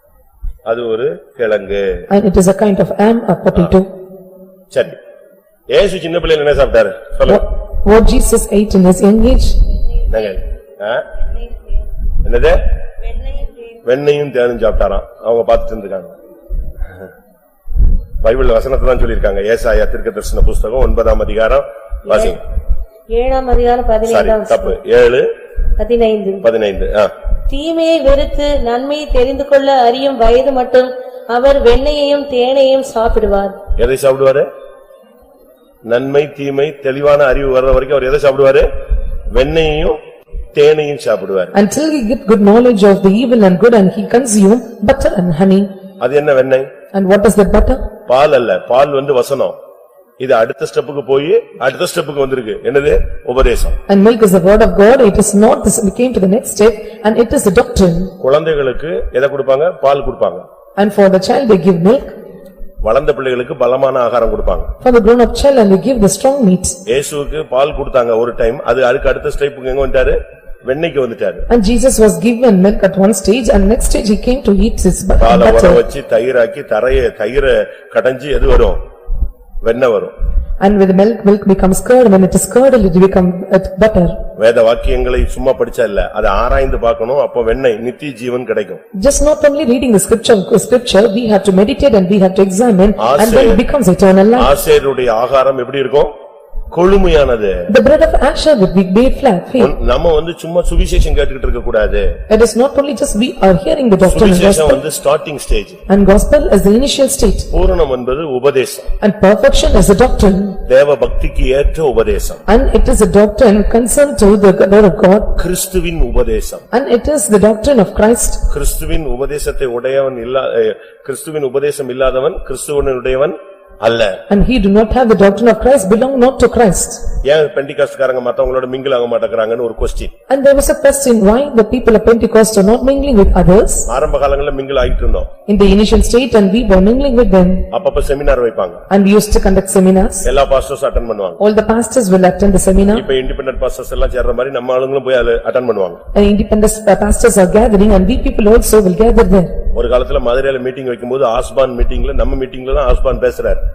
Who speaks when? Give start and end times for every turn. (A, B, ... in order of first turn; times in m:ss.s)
0:00.6-0:02.0 A
0:02.1-0:03.9 B
0:05.7-0:07.4 A
0:07.3-0:09.6 B
0:10.1-0:11.1 A
0:11.4-0:11.8 C
0:12.2-0:12.6 A
0:13.1-0:13.7 C
0:13.8-0:16.1 A
0:18.2-0:22.4 A
0:22.1-0:22.4 C
0:23.1-0:24.8 C
0:24.0-0:25.2 A
0:25.8-0:26.4 C
0:26.4-0:27.1 A
0:27.5-0:33.6 C
0:33.8-0:34.5 A
0:35.8-0:38.7 A
0:39.3-0:40.0 A
0:40.5-0:41.5 A
0:41.5-0:45.7 B
0:46.0-0:46.7 A
0:46.9-0:47.8 B
0:48.1-0:49.5 A
0:50.2-0:53.8 A
0:53.9-0:58.1 B
0:58.2-1:00.4 A
1:00.8-1:02.1 B
1:02.8-1:04.7 A
1:04.8-1:06.8 B
1:06.9-1:11.4 A
1:11.5-1:15.8 B
1:15.2-1:18.8 A
1:19.6-1:20.1 A
1:20.6-1:24.2 B
1:24.4-1:28.8 A
1:29.0-1:34.5 B
1:33.0-1:33.6 A
1:34.4-1:36.1 A
1:36.7-1:37.6 A
1:37.7-1:39.7 B
1:39.6-1:42.1 A
1:42.3-1:44.8 B
1:44.0-1:45.8 A
1:45.9-1:47.5 B
1:47.5-1:48.9 A
1:49.0-1:50.6 B
1:50.6-1:52.4 A
1:52.5-1:55.3 B
1:55.4-1:56.6 A
1:56.7-1:58.4 B
1:58.5-2:04.2 A
2:04.3-2:07.0 B
2:07.2-2:10.1 A
2:10.3-2:13.9 B
2:13.9-2:15.3 A
2:15.5-2:17.6 B
2:17.7-2:18.8 A
2:18.9-2:20.3 B
2:20.2-2:21.4 A
2:21.4-2:23.0 B
2:22.9-2:26.0 A
2:26.1-2:29.5 B
2:29.7-2:33.6 A